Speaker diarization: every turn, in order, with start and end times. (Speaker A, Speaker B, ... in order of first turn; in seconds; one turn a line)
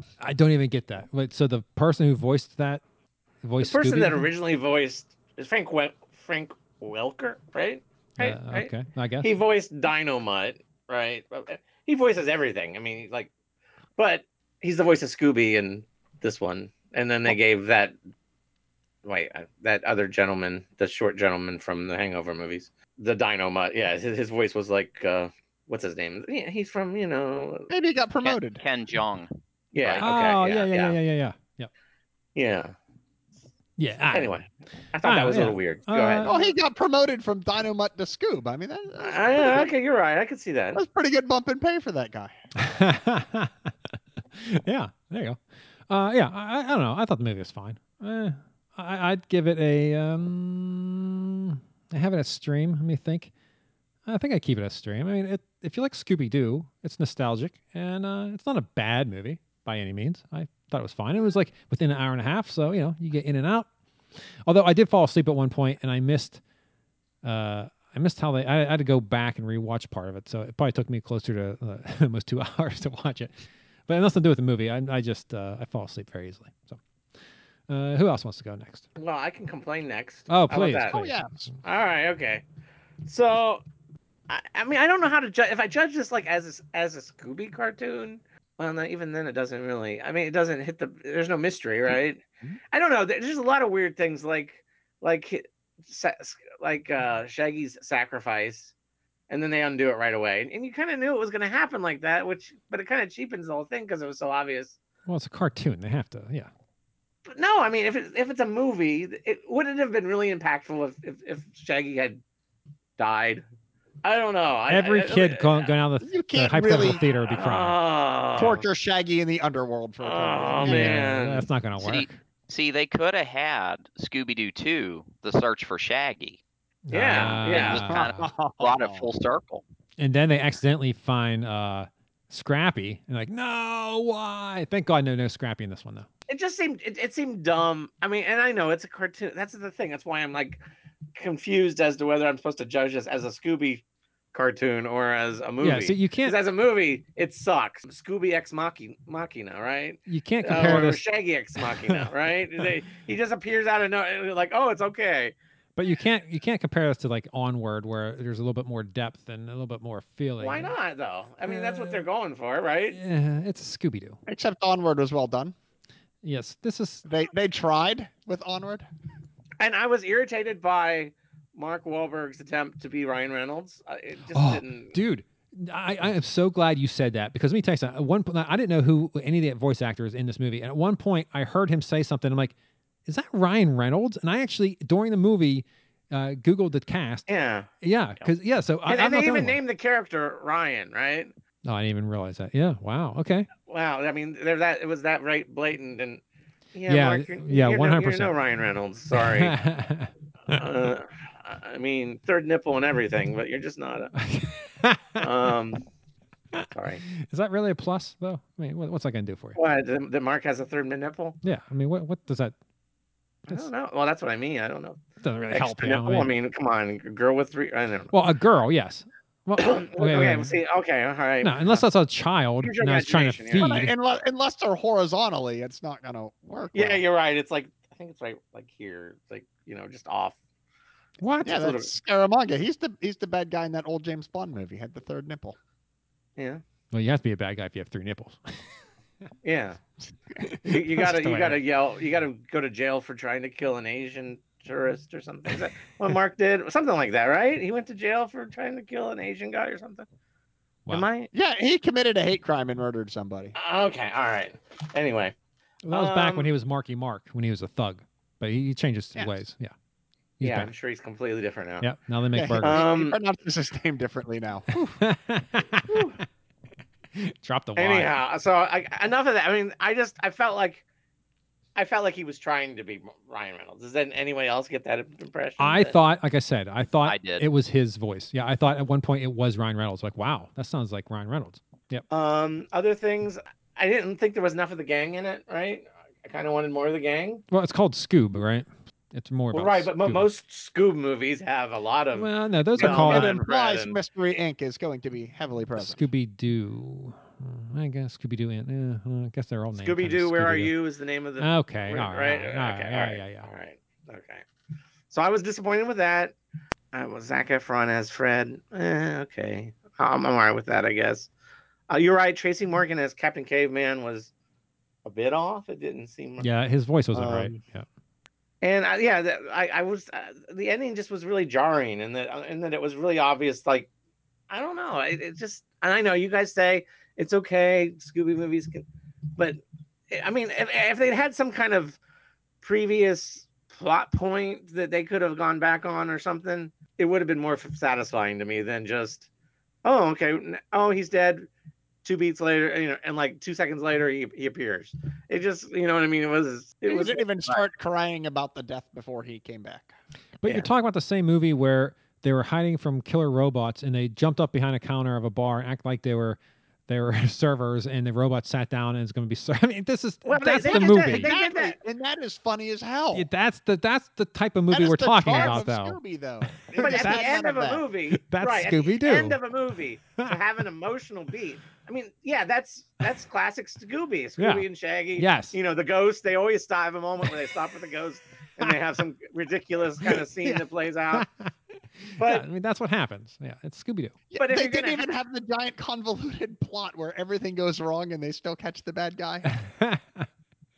Speaker A: 0.2-2.8
Speaker A: 3.4-4.3
Speaker B: 3.6-13.3
Speaker A: 8.2-9.3
Speaker B: 14.0-18.0
Speaker B: 19.1-27.7
Speaker C: 27.7-28.6
Speaker D: 28.2-30.1
Speaker B: 29.7-30.9
Speaker A: 30.0-31.7
Speaker B: 32.4-32.7
Speaker A: 33.8-34.4
Speaker B: 34.1-36.4
Speaker A: 35.0-36.3
Speaker C: 36.2-39.7
Speaker B: 39.0-40.8
Speaker C: 40.7-42.4
Speaker A: 42.6-43.7
Speaker A: 44.4-53.3
Speaker A: 54.1-63.7
Speaker A: 64.5-66.4
Speaker A: 67.2-73.3
Speaker A: 73.9-76.8
Speaker A: 77.7-78.9
Speaker B: 79.0-81.0
Speaker A: 80.3-81.1
Speaker C: 80.9-81.5
Speaker B: 81.6-82.4
Speaker B: 83.0-83.6
Speaker B: 84.3-98.7
Speaker B: 99.3-104.8
Speaker A: 105.1-106.5
Speaker B: 107.3-112.2
Speaker B: 113.0-113.4
Speaker B: 114.0-115.7
Speaker A: 114.7-117.8
Speaker C: 116.0-117.0
Speaker B: 117.3-118.6
Speaker C: 118.4-121.1
Speaker B: 120.0-121.5
Speaker A: 120.6-122.2
Speaker D: 121.8-126.4
Speaker A: 126.9-128.2
Speaker B: 126.9-127.8
Speaker D: 127.2-129.6
Speaker C: 127.8-129.1
Speaker A: 130.0-136.1
Speaker B: 136.3-140.6
Speaker B: 141.1-143.8
Speaker B: 144.3-155.3
Speaker A: 145.6-146.4
Speaker A: 150.1-151.0
Speaker A: 151.6-152.1
Speaker A: 155.8-160.7
Speaker B: 160.4-163.0
Speaker A: 161.4-162.1
Speaker A: 162.9-164.2
Speaker C: 164.3-165.6
Speaker A: 166.2-167.1
Speaker C: 167.1-168.9
Speaker B: 169.6-175.0
Speaker A: 174.3-182.6
Speaker A: 183.1-187.3
Speaker B: 187.3-187.7
Speaker A: 187.8-189.6
Speaker B: 188.9-191.3
Speaker A: 191.7-193.5
Speaker B: 193.6-196.2
Speaker B: 196.7-199.6
Speaker A: 196.9-198.3
Speaker A: 199.1-200.6
Speaker B: 200.5-204.1
Speaker A: 204.2-205.2
Speaker B: 205.2-205.8
Speaker A: 206.6-209.6
Speaker B: 206.7-207.0
Speaker B: 209.6-211.4
Speaker A: 211.4-212.6
Speaker B: 213.5-218.1
Speaker A: 215.2-216.3
Speaker A: 218.1-220.5
Speaker B: 219.6-221.8
Speaker A: 221.4-223.9
Speaker B: 222.6-223.8
Speaker C: 223.6-227.0
Speaker B: 226.7-230.4
Speaker A: 231.2-231.6
Speaker C: 231.4-235.6
Speaker B: 231.5-231.9
Speaker A: 236.9-238.6
Speaker B: 239.4-239.8
Speaker A: 240.4-241.6
Speaker B: 240.7-250.1
Speaker B: 250.9-251.3
Speaker C: 251.3-253.5
Speaker B: 253.6-255.3
Speaker A: 255.8-259.7
Speaker B: 255.9-256.5
Speaker A: 260.4-260.7
Speaker B: 260.4-261.9
Speaker A: 261.8-262.8
Speaker C: 262.4-265.0
Speaker B: 262.6-263.2
Speaker A: 265.0-266.1
Speaker B: 265.9-266.2
Speaker A: 267.1-268.1
Speaker B: 267.8-270.8
Speaker B: 271.8-276.0
Speaker A: 275.6-282.1
Speaker D: 277.1-277.4
Speaker B: 282.1-287.4
Speaker A: 287.5-290.3
Speaker B: 289.5-293.9
Speaker A: 292.1-293.4
Speaker C: 292.8-296.1
Speaker A: 295.8-300.7
Speaker B: 299.8-304.4
Speaker A: 301.4-303.5
Speaker B: 305.1-306.4
Speaker B: 306.9-311.3
Speaker B: 311.9-314.3
Speaker B: 315.1-316.5
Speaker A: 316.4-317.9
Speaker B: 317.2-317.5
Speaker B: 318.6-323.9
Speaker B: 324.5-328.9
Speaker B: 329.4-332.0
Speaker B: 332.6-339.3
Speaker B: 339.9-341.5
Speaker B: 342.0-347.2
Speaker C: 346.9-349.9
Speaker A: 350.4-361.4
Speaker B: 360.2-361.7
Speaker C: 360.7-363.3
Speaker A: 363.1-366.0
Speaker C: 364.7-367.8
Speaker B: 365.3-365.6
Speaker A: 366.5-367.4
Speaker B: 366.8-381.3
Speaker A: 368.1-369.4
Speaker A: 374.4-374.6
Speaker A: 375.2-375.6
Speaker A: 381.1-381.5
Speaker A: 382.1-384.2
Speaker B: 382.2-382.4
Speaker C: 384.3-389.5
Speaker B: 384.4-385.1
Speaker A: 389.5-390.3